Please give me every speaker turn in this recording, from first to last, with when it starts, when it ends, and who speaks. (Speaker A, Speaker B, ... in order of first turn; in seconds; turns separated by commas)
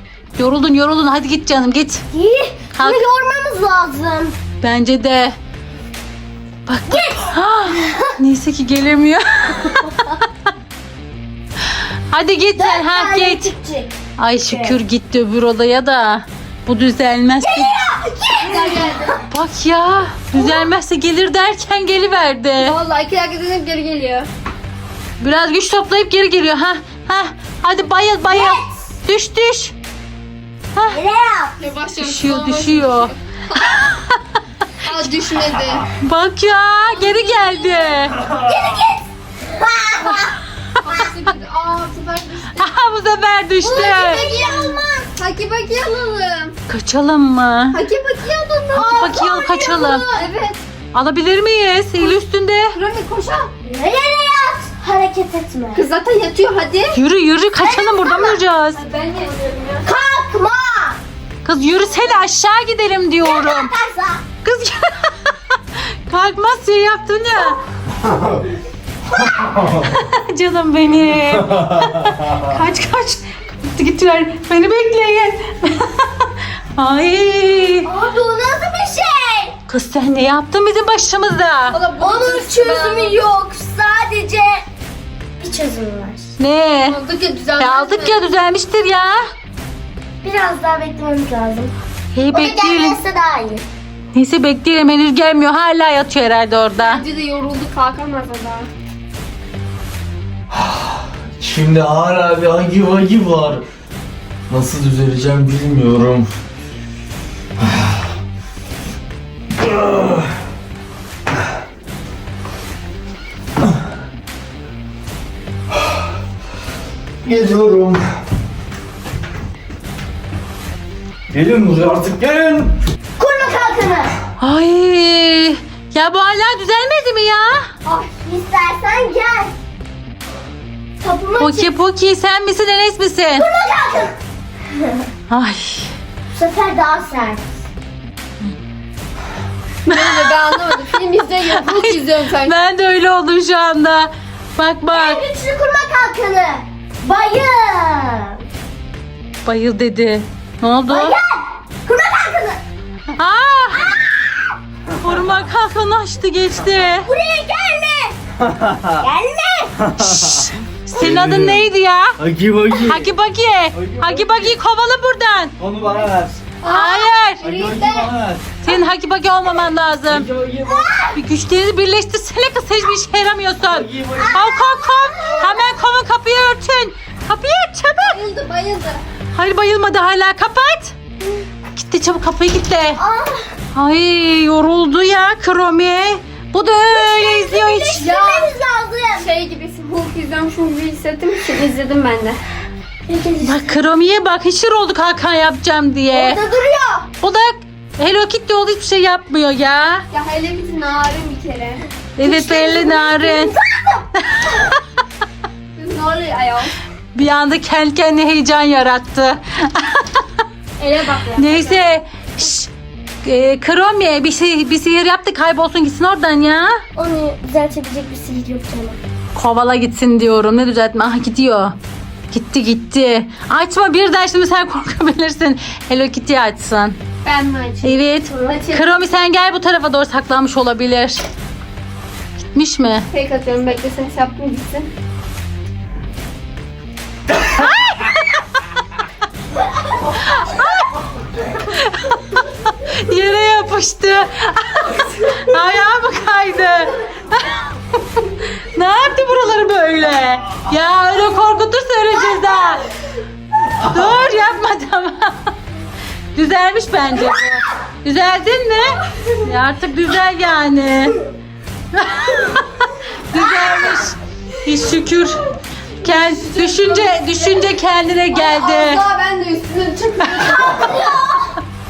Speaker A: 0.3-2.0, Speaker B: 2.1-4.4, Speaker A: 2.7-3.0, Speaker A: 4.6-5.3, Speaker A: 6.7-10.1, Speaker B: 6.8-8.2, Speaker A: 12.1-13.5, Speaker B: 12.6-14.8, Speaker A: 14.2-17.7, Speaker B: 17.4-19.1, Speaker C: 18.4-19.2, Speaker A: 19.3-22.8, Speaker B: 20.3-20.7, Speaker C: 22.6-24.3, Speaker A: 25.2-29.7, Speaker B: 28.3-28.9, Speaker B: 30.9-31.6, Speaker C: 31.6-33.8, Speaker A: 32.0-34.2, Speaker C: 34.8-35.9, Speaker A: 35.9-38.2, Speaker B: 37.0-37.4, Speaker C: 37.0-37.9, Speaker B: 38.2-40.4, Speaker C: 40.8-42.7, Speaker A: 42.6-44.2, Speaker B: 43.6-45.1, Speaker C: 44.0-44.6, Speaker C: 45.1-46.6, Speaker A: 46.7-47.8, Speaker C: 47.7-48.9, Speaker B: 48.7-50.3, Speaker A: 48.8-50.1, Speaker C: 50.1-50.6, Speaker A: 50.9-52.8, Speaker C: 52.7-53.5, Speaker B: 53.6-55.8, Speaker C: 55.7-57.0, Speaker A: 56.9-58.8, Speaker B: 57.6-58.4, Speaker C: 58.7-59.9, Speaker B: 59.8-61.0, Speaker A: 61.4-63.7, Speaker B: 63.2-64.2, Speaker A: 64.4-65.2, Speaker A: 66.1-67.6, Speaker B: 69.2-69.5, Speaker A: 69.7-77.9, Speaker B: 77.8-79.6, Speaker A: 79.7-81.8, Speaker C: 81.7-83.2, Speaker B: 82.0-84.6, Speaker B: 85.4-86.3, Speaker A: 86.4-87.0, Speaker C: 86.9-88.3, Speaker A: 87.6-89.3, Speaker B: 90.2-91.7, Speaker A: 92.1-93.0, Speaker B: 92.3-93.7, Speaker A: 94.1-97.0, Speaker C: 96.8-98.7, Speaker D: 100.5-103.6, Speaker D: 104.5-106.3, Speaker D: 109.5-110.3, Speaker D: 117.2-118.0, Speaker D: 121.3-122.8, Speaker B: 123.2-124.1, Speaker A: 124.4-127.7, Speaker B: 127.9-129.5, Speaker B: 131.0-131.7, Speaker A: 131.4-133.4, Speaker B: 133.3-134.2, Speaker A: 135.3-135.9, Speaker B: 136.3-137.6, Speaker C: 139.8-142.5, Speaker A: 139.9-140.6, Speaker A: 141.5-145.2, Speaker B: 144.9-148.4, Speaker A: 149.4-151.2, Speaker B: 150.9-152.6, Speaker A: 153.2-154.0, Speaker B: 153.8-154.1, Speaker A: 155.0-157.1, Speaker B: 157.0-158.1, Speaker D: 158.4-159.0, Speaker B: 159.0-160.1, Speaker D: 159.8-163.1, Speaker A: 160.1-162.2, Speaker A: 162.8-165.6, Speaker D: 163.7-164.6, Speaker D: 165.6-166.4, Speaker C: 166.6-168.1, Speaker A: 166.7-167.4, Speaker D: 167.4-168.5, Speaker A: 168.6-170.3, Speaker D: 170.1-170.9, Speaker B: 170.6-171.2, Speaker A: 171.1-178.2, Speaker D: 173.6-174.5, Speaker B: 174.2-175.6, Speaker C: 178.1-179.0, Speaker A: 179.3-180.9, Speaker A: 181.7-183.0, Speaker B: 183.0-183.5, Speaker A: 183.7-188.1, Speaker B: 186.9-189.3, Speaker C: 188.0-188.5, Speaker C: 189.2-192.4, Speaker B: 193.1-193.8, Speaker A: 193.4-196.4, Speaker B: 196.1-197.1, Speaker A: 197.2-200.0, Speaker C: 200.1-201.8, Speaker A: 202.2-203.5, Speaker B: 202.2-204.1, Speaker A: 204.3-204.8, Speaker C: 205.8-206.8, Speaker A: 207.1-210.2, Speaker C: 210.8-211.9, Speaker A: 211.3-212.7, Speaker A: 213.2-216.8, Speaker B: 216.9-219.0, Speaker A: 219.3-221.7, Speaker A: 222.3-227.0, Speaker C: 227.2-229.0, Speaker A: 227.8-231.2, Speaker B: 228.3-228.6, Speaker A: 232.5-233.1, Speaker C: 233.1-234.9, Speaker A: 237.6-238.2, Speaker A: 240.2-240.9, Speaker A: 241.6-247.6, Speaker A: 248.2-252.9, Speaker A: 253.8-255.5, Speaker A: 256.3-261.2, Speaker A: 261.9-265.4, Speaker B: 263.4-263.6, Speaker A: 266.0-269.1, Speaker C: 266.0-267.7, Speaker C: 268.3-271.1, Speaker B: 270.5-271.5